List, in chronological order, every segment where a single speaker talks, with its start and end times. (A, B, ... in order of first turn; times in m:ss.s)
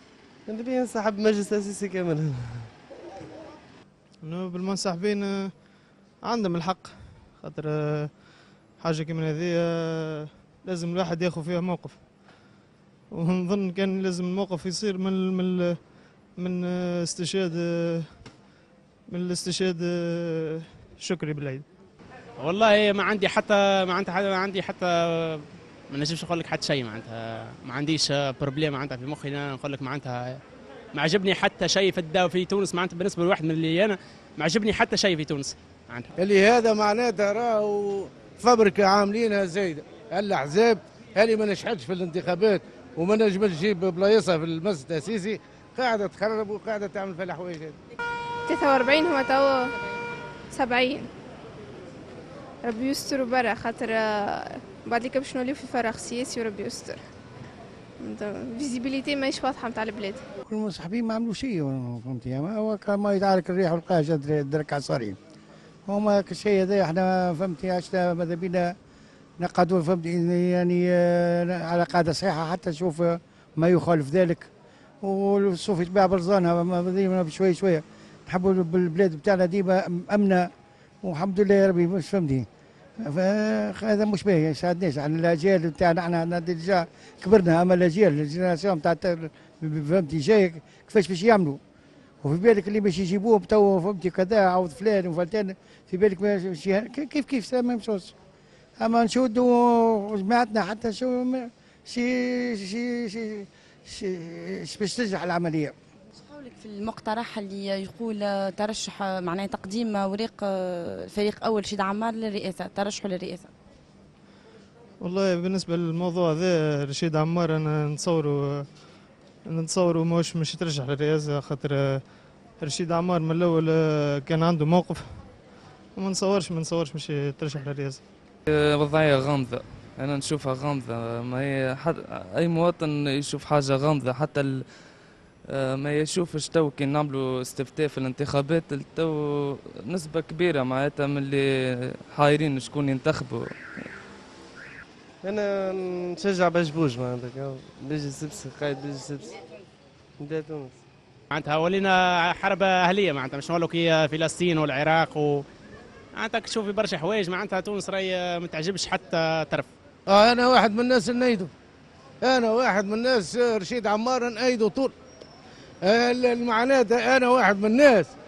0:00.5-0:02.7 A
0:04.2-0:05.5 B
0:06.2-0:08.1 B
0:08.8-0:12.0 B
0:13.1-0:15.8 B
0:16.4-0:18.1 B
0:19.1-0:21.6 B
0:22.4-0:30.4 C
0:31.0-0:36.1 C
0:36.2-0:47.8 D
0:48.5-0:49.8 E
0:50.5-0:51.1 E
0:52.6-0:57.0 E
0:58.0-1:00.2 E
1:00.5-1:05.2 F
1:05.9-1:08.7 F
1:09.4-1:14.5 F
1:15.0-1:20.5 F
1:21.0-1:22.5 F
1:23.0-1:31.6 F
1:32.2-1:38.1 F
1:38.8-1:45.7 F
1:46.3-1:53.5 G
1:55.0-1:58.7 B
1:59.5-2:02.0 B
2:02.6-2:05.3 B
2:06.0-2:08.0 B
2:08.5-2:14.6 H
2:15.5-2:23.5 H
2:25.2-2:29.4 A
2:30.2-2:30.8 A
2:31.3-2:35.4 C
2:36.2-2:39.7 C
2:40.1-2:41.5 D
2:42.2-2:44.9 D
2:45.9-2:48.1 D